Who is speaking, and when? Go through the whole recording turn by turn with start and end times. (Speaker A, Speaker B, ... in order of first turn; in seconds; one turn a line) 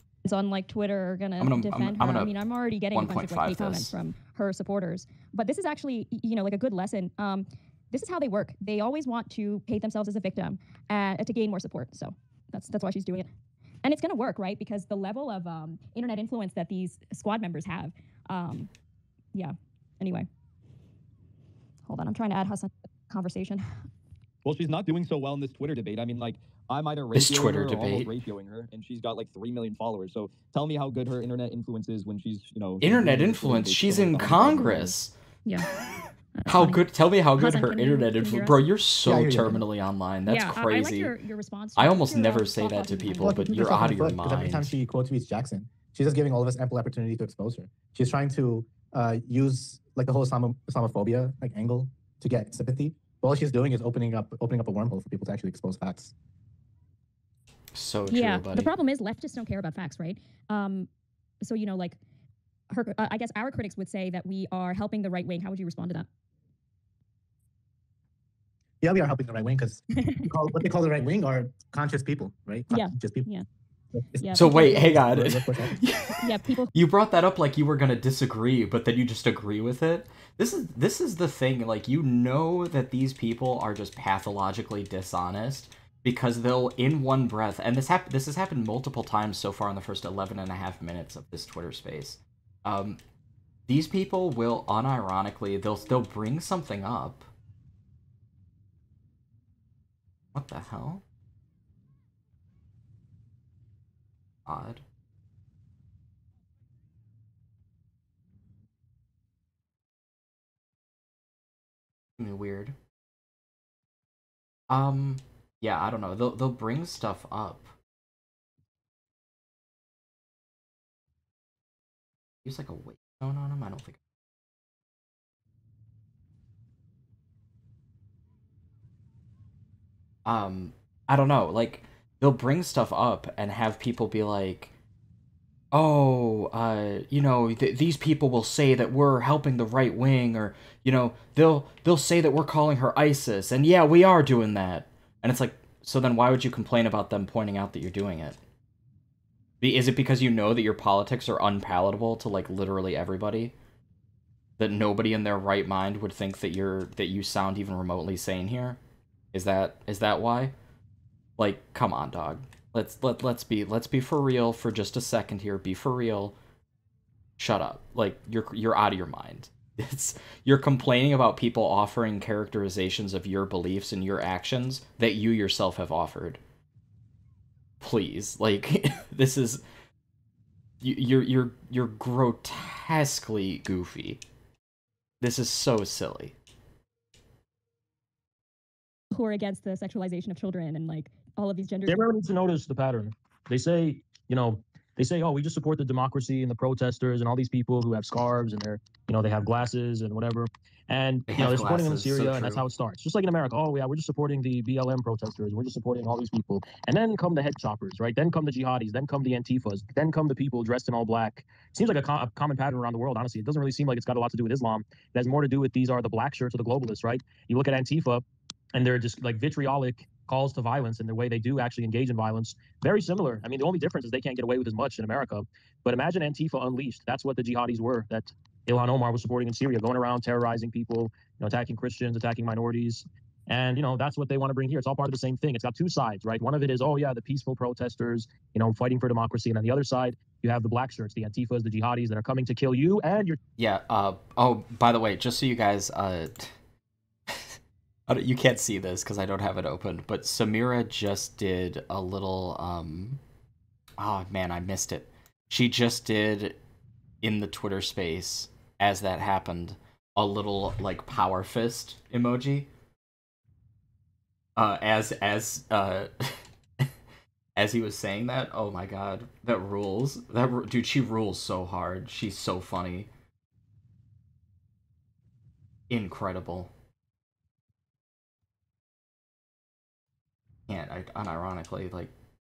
Speaker A: 0.2-13.3
Speaker B: 1.4-2.3
Speaker B: 2.9-3.9
Speaker A: 13.8-18.7
Speaker A: 19.3-20.3
Speaker A: 21.9-23.6
Speaker C: 24.4-34.9
Speaker B: 27.1-28.1
Speaker B: 32.8-35.1
Speaker A: 35.5-35.7
Speaker A: 36.3-36.8
Speaker B: 36.5-41.1
Speaker A: 37.3-38.6
Speaker D: 39.0-39.6
Speaker A: 40.3-43.8
Speaker B: 41.8-44.8
Speaker D: 43.2-56.1
Speaker B: 57.7-58.7
Speaker A: 58.1-60.9
Speaker A: 61.4-62.0
Speaker A: 62.7-66.1
Speaker D: 68.8-73.3
Speaker A: 70.0-70.2
Speaker A: 72.7-73.4
Speaker D: 74.1-75.8
Speaker A: 74.2-74.8
Speaker B: 74.3-93.0
Speaker A: 76.2-76.7
Speaker B: 93.7-97.3
Speaker B: 100.3-101.0
Speaker B: 104.5-104.8
Speaker B: 112.2-112.7
Speaker B: 114.7-117.7
Speaker B: 122.4-124.0
Speaker B: 130.2-134.7
Speaker B: 135.7-148.4
Speaker B: 149.6-153.5
Speaker B: 154.6-158.8
Speaker B: 159.3-160.5
Speaker B: 161.4-166.3
Speaker B: 167.4-176.4
Speaker B: 177.8-179.6
Speaker B: 180.8-184.2
Speaker B: 185.2-186.3
Speaker A: 189.1-192.0
Speaker E: 191.9-243.4
Speaker B: 201.3-202.6
Speaker B: 243.6-246.5
Speaker B: 247.3-247.5
Speaker B: 248.1-253.2
Speaker B: 254.0-256.6
Speaker B: 257.2-262.7
Speaker B: 264.6-266.8
Speaker B: 267.6-273.1
Speaker B: 275.9-276.7
Speaker B: 280.7-282.1